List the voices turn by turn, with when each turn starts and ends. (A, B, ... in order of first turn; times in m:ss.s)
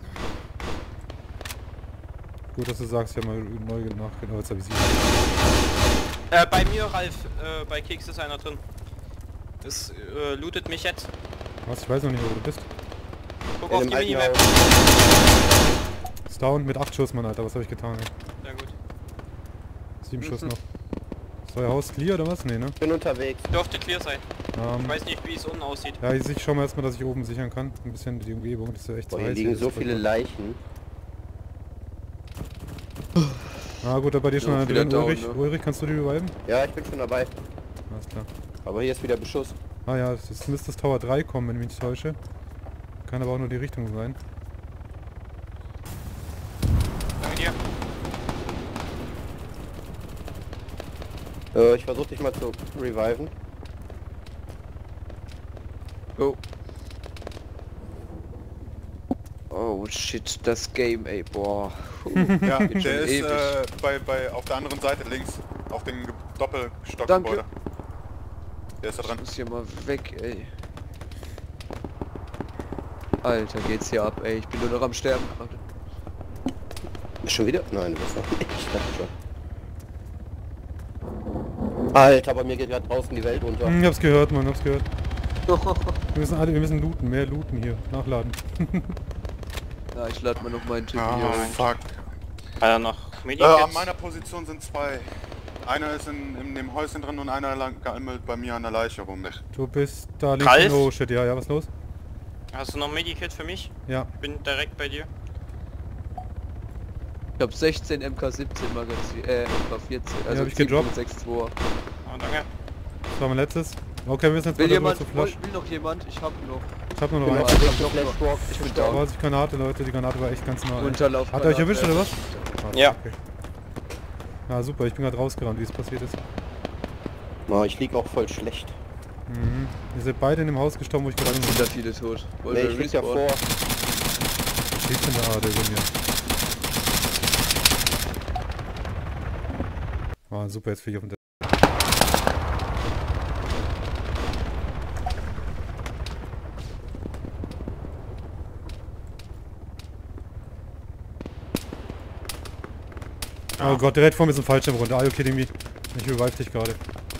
0:02.5-0:05.1 A
0:06.3-0:08.6 B
0:09.6-0:11.1 B
0:11.6-0:12.7 A
0:13.6-0:14.4 B
0:13.7-0:14.6 C
0:16.3-0:18.1 A
0:18.4-0:18.7 B
0:20.0-0:20.6 A
0:21.5-0:22.8 A
0:22.8-0:23.5 C
0:23.5-0:24.2 B
0:24.6-0:25.0 A
0:24.7-0:26.0 B
0:26.0-0:30.0 A
0:29.1-0:30.6 C
0:33.8-0:36.3 A
0:34.4-0:35.4 D
0:36.4-0:37.3 C
0:37.9-0:38.3 A
0:38.6-0:39.6 C
0:39.8-0:42.2 A
0:43.1-0:44.2 A
0:47.2-0:47.5 B
0:51.5-0:53.3 C
0:59.5-1:03.6 D
1:02.2-1:02.8 A
1:02.4-1:07.4 E
1:07.0-1:07.4 D
1:08.8-1:09.2 E
1:09.0-1:10.5 D
1:13.2-1:15.6 D
1:17.2-1:19.1 C
1:21.9-1:23.8 C
1:23.6-1:24.8 A
1:25.5-1:26.0 D
1:26.1-1:28.9 A
1:29.9-1:31.7 D
1:30.9-1:32.0 E
1:31.3-1:31.6 B
1:32.6-1:33.9 B
1:33.4-1:35.1 E
1:35.6-1:39.4 E
1:39.5-1:41.7 A
1:40.4-1:40.9 B
1:42.5-1:45.1 B
1:47.4-1:51.5 D
1:50.3-1:50.9 A
1:52.0-1:52.5 B
1:53.1-1:55.4 A
1:54.5-1:59.1 D
1:57.0-1:57.5 A
1:57.2-1:59.0 C
1:58.7-2:03.2 A
2:00.8-2:02.4 D
2:02.7-2:03.0 B
2:04.5-2:06.2 A
2:07.5-2:08.8 C
2:09.3-2:11.7 A
2:11.2-2:13.2 D
2:12.5-2:13.4 C
2:14.7-2:15.9 A
2:20.3-2:21.2 A
2:33.6-2:33.8 E
2:33.6-2:36.8 A